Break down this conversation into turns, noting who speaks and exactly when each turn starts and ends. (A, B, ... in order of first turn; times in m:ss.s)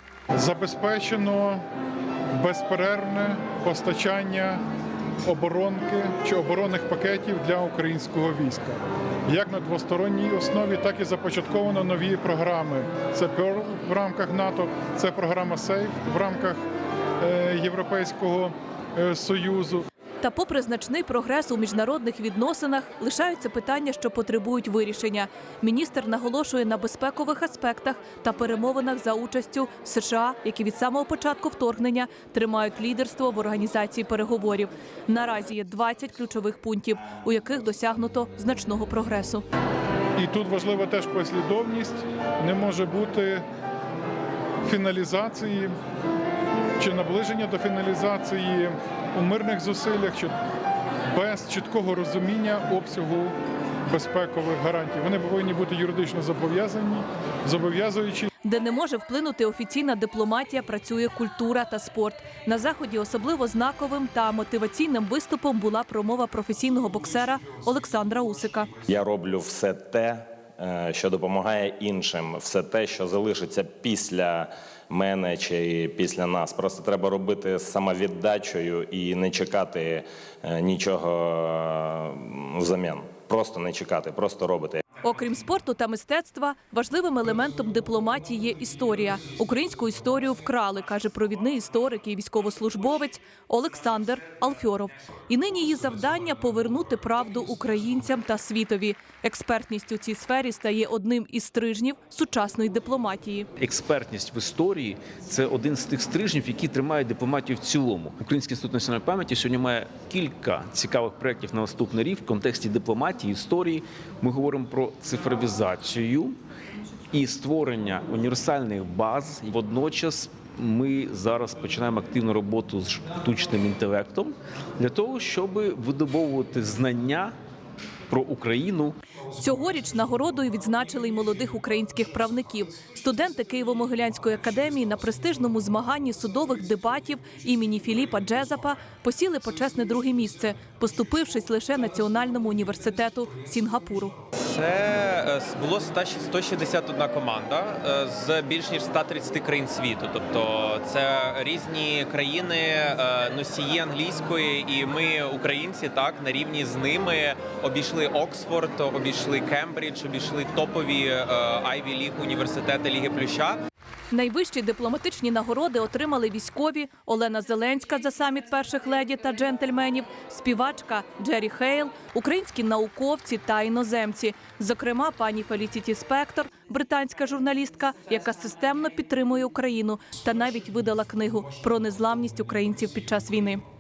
0:00.3-0:01.6 A
0:02.3-0:04.6 A
0:05.2-0:16.6 A
0:17.2-0:19.9 A
0:20.2-0:39.4 B
0:40.2-0:43.4 A
0:44.6-0:45.7 A
0:46.8-0:50.4 A
0:51.1-0:53.4 A
0:53.9-0:58.3 A
0:58.4-1:08.7 B
1:08.8-1:24.8 C
1:25.0-1:43.5 B
1:43.6-1:56.4 D
1:57.1-2:07.3 D
2:08.1-2:09.0 D
2:09.4-2:24.2 B
2:24.4-2:43.6 E
2:44.1-3:03.6 B